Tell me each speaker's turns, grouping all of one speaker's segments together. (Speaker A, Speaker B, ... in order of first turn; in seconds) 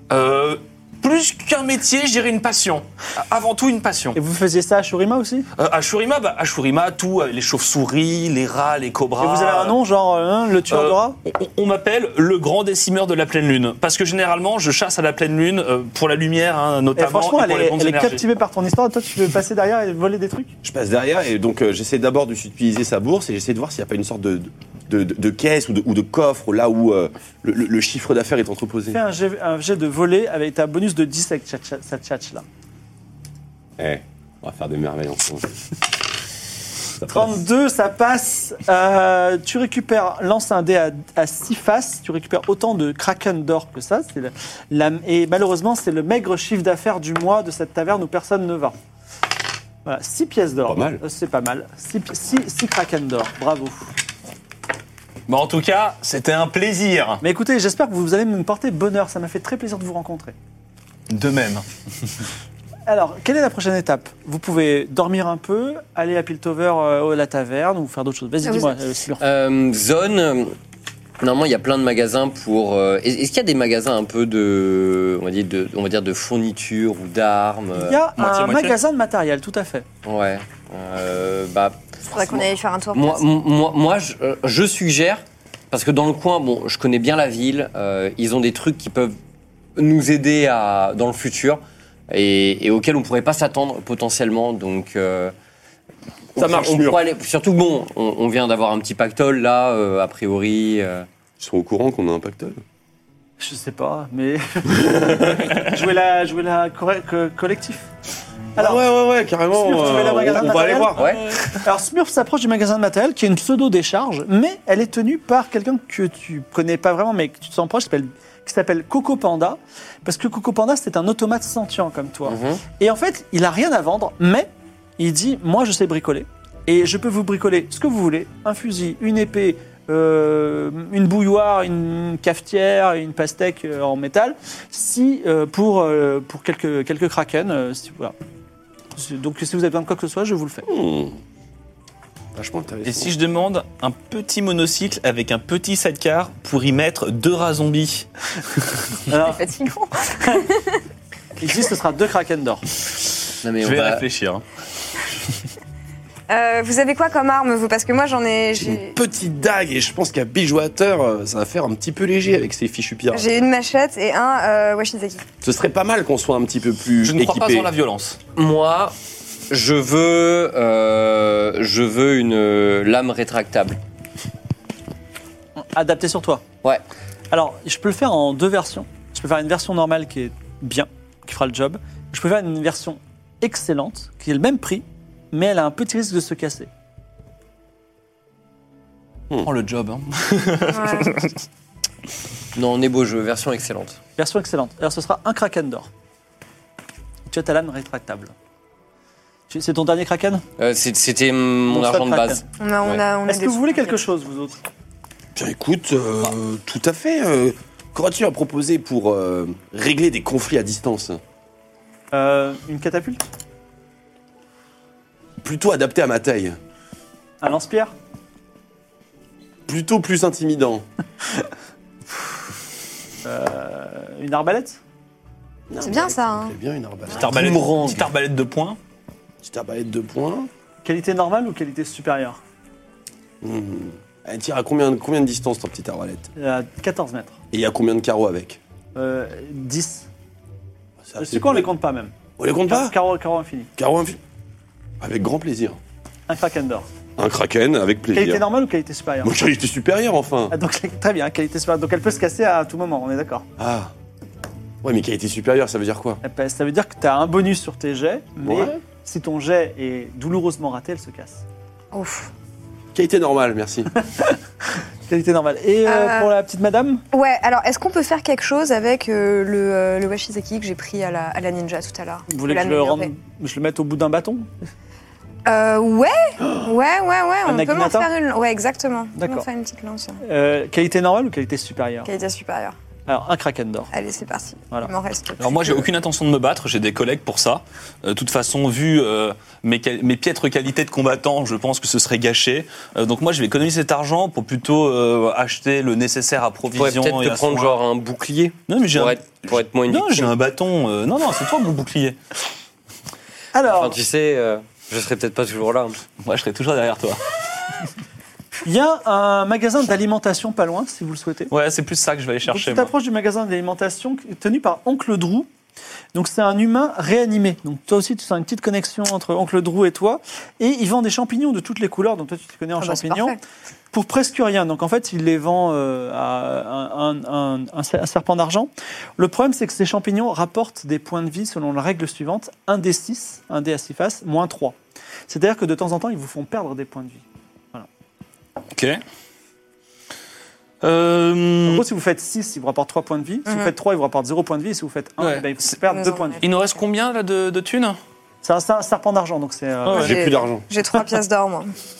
Speaker A: 0.1-4.2, 5.6-9.8, 10.7-18.2, 55.3-57.2, 61.1-61.7, 78.2-78.8, 142.9-148.1, 153.6-154.4, 167.0-168.2, 189.4-191.3, 227.2-228.8, 285.4-297.8, 298.7-302.2, 306.2-307.2, 311.5-312.9, 338.7-339.0, 340.8-341.8, 345.2-345.8, 346.4-348.0, 349.9-350.1
Speaker B: 4.2-5.5, 9.2-11.2, 17.0-20.5, 28.9-32.5, 37.1-48.8, 49.9-53.9, 57.2-60.4, 62.9-69.2, 77.8-79.9, 103.4-107.9, 108.6-108.8, 109.5-111.0, 111.6-138.2, 138.9-140.7, 149.1-149.4, 151.4-152.6, 175.7-176.4, 177.3-186.7, 194.2-195.9, 197.3-198.3, 199.5-200.4, 201.7-202.4, 203.2-204.6, 212.1-213.2, 217.4-217.9, 223.2-224.8, 230.8-232.4, 236.4-237.4, 238.9-240.1, 241.2-242.2, 242.7-243.7, 246.3-246.9, 248.1-249.3, 250.5-253.5, 256.2-261.4, 265.1-267.0, 272.3-274.5, 277.4-278.1, 279.2-279.5, 280.2-282.1, 283.1-283.9, 303.5-304.0, 308.6-311.5, 312.5-315.5, 316.1-323.4, 323.9-334.8, 335.3-337.9, 341.7-346.4, 348.4-350.2
Speaker C: 20.6-29.0, 33.8-35.5, 37.0-37.3, 50.7-51.0, 96.4-97.0, 101.4-102.6, 105.0-105.5, 108.6-111.2, 140.7-141.2, 142.3-143.1, 158.6-163.3, 165.4-167.7, 205.3-211.2, 215.4-216.6, 219.7-220.8, 225.7-227.3, 229.4-230.5, 233.4-236.3, 237.5-238.6, 241.0-241.7, 242.4-242.9, 243.8-244.2, 245.0-245.8, 247.2-248.4, 249.2-250.6, 253.6-253.9, 254.8-256.2, 258.4-258.8, 262.9-263.9, 350.0-350.7
Speaker D: 68.4-68.8, 82.1-83.3, 149.2-150.8, 156.3-159.0, 163.1-165.2, 190.7-191.2, 202.6-204.0, 225.8-226.6, 261.9-262.3, 265.9-266.3, 267.1-273.1, 275.5-280.2, 282.1-282.8, 283.9-285.9, 322.8-323.4, 343.5-343.7, 345.9-346.8, 349.9-351.7
Speaker E: 69.2-70.6, 71.2-78.0, 80.0-82.4, 82.9-89.2, 89.8-95.3, 96.4-101.1, 110.9-111.2, 122.2-122.6, 153.4-154.0, 168.4-168.9, 169.5-173.8, 192.6-194.0, 200.6-203.0, 227.1-228.1, 296.8-300.3, 303.6-306.0